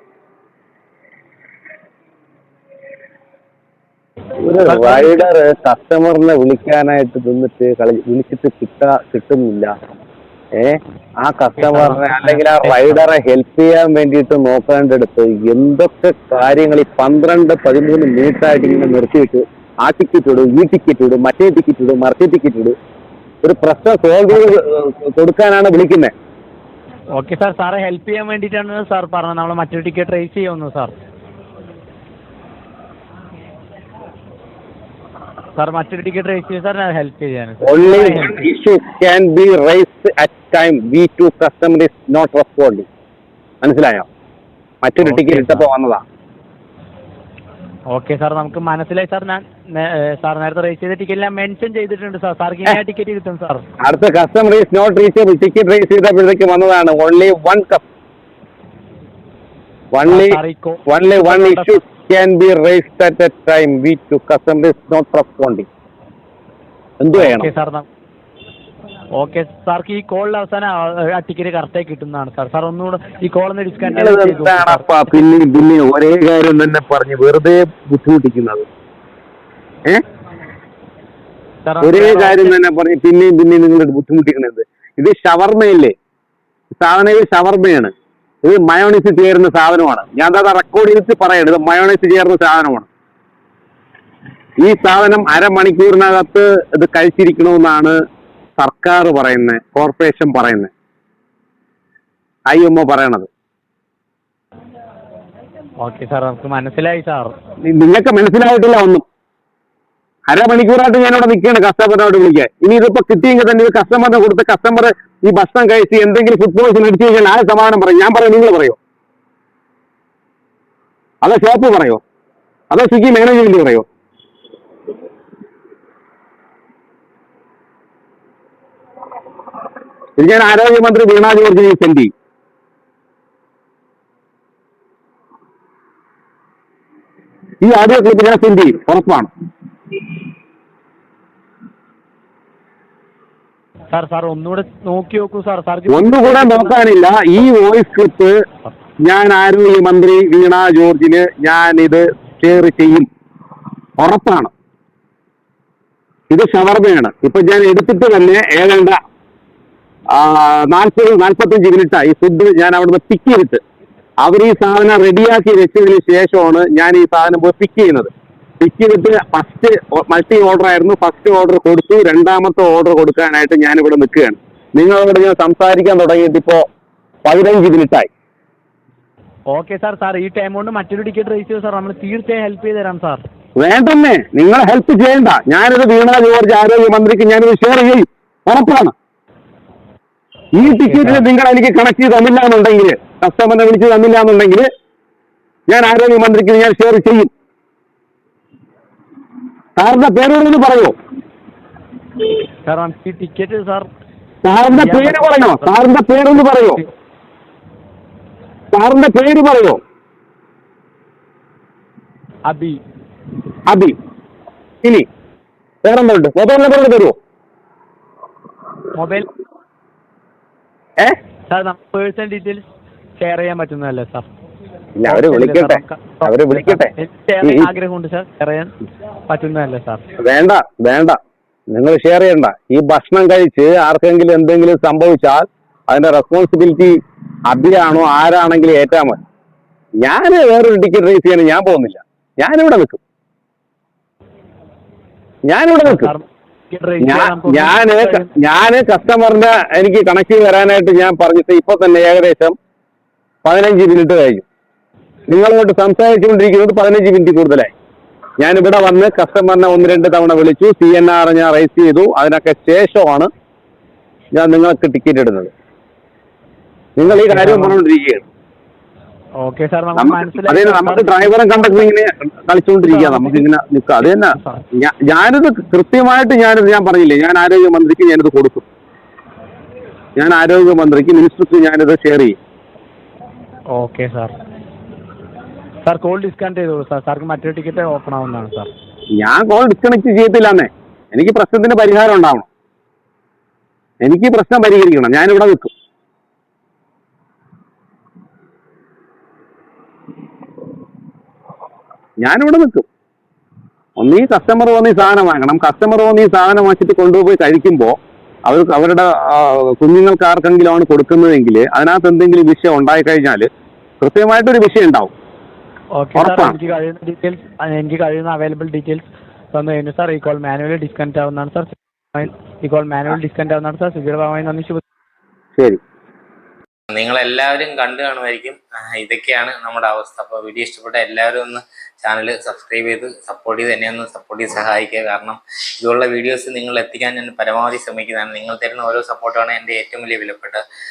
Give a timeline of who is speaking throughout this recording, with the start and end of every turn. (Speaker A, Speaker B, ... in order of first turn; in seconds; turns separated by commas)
Speaker A: 4.4-9.7, Speaker B: 4.6-5.3, Speaker A: 10.5-22.7, Speaker B: 11.6-13.0, Speaker A: 23.4-26.1, Speaker B: 27.1-30.9, Speaker B: 35.6-38.4, Speaker A: 37.6-42.9, Speaker A: 43.6-44.1, Speaker A: 44.8-46.0, Speaker B: 45.0-45.7, Speaker B: 47.9-53.6, Speaker A: 53.8-57.8, Speaker A: 59.9-65.7, Speaker B: 60.1-61.8, Speaker A: 67.0-67.5, Speaker B: 67.1-67.9, Speaker B: 69.1-75.2, Speaker A: 73.9-78.7, Speaker B: 81.6-82.5, Speaker A: 81.8-85.9, Speaker A: 86.8-87.9, Speaker A: 88.4-92.9, Speaker A: 94.6-98.0, Speaker A: 98.6-100.7, Speaker A: 102.5-103.3, Speaker B: 105.8-107.3, Speaker A: 107.7-109.0, Speaker A: 110.3-118.8, Speaker A: 121.2-122.0, Speaker A: 122.7-123.8, Speaker A: 130.2-132.1, Speaker A: 137.6-139.3, Speaker B: 143.9-146.8, Speaker A: 145.9-148.4, Speaker A: 149.0-153.1, Speaker A: 154.0-154.5, Speaker A: 156.3-159.0, Speaker A: 160.1-163.6, Speaker A: 164.2-176.6, Speaker A: 177.2-178.1, Speaker B: 179.5-183.2, Speaker A: 183.6-188.9, Speaker A: 190.6-194.7, Speaker B: 190.6-191.2, Speaker A: 195.7-197.3, Speaker A: 199.8-200.9, Speaker B: 202.7-203.9, Speaker A: 204.4-206.8, Speaker B: 204.7-205.8, Speaker A: 208.7-209.8, Speaker B: 212.5-212.8, Speaker A: 213.7-213.9, Speaker A: 215.8-217.1, Speaker B: 218.9-219.3, Speaker B: 221.5-222.6, Speaker B: 223.2-224.3, Speaker A: 225.0-227.7, Speaker B: 225.0-228.7, Speaker B: 229.3-230.0, Speaker A: 230.2-231.2, Speaker A: 231.7-237.0, Speaker A: 237.5-239.2, Speaker A: 240.0-243.0, Speaker A: 245.5-246.1, Speaker B: 245.8-248.3, Speaker A: 247.0-252.6, Speaker A: 253.4-254.4, Speaker A: 255.3-257.7, Speaker A: 258.4-263.3, Speaker A: 264.3-265.5, Speaker A: 267.0-268.2, Speaker B: 267.1-267.8, Speaker B: 269.4-271.3, Speaker A: 269.9-278.6, Speaker B: 272.8-273.4, Speaker B: 274.0-274.6, Speaker A: 280.2-282.4, Speaker B: 283.7-284.3, Speaker B: 285.8-288.7, Speaker A: 289.2-292.4, Speaker A: 294.0-295.7, Speaker A: 302.2-302.8, Speaker A: 304.0-313.5, Speaker A: 314.0-315.1, Speaker B: 315.9-324.8, Speaker A: 316.1-316.6, Speaker C: 326.9-340.6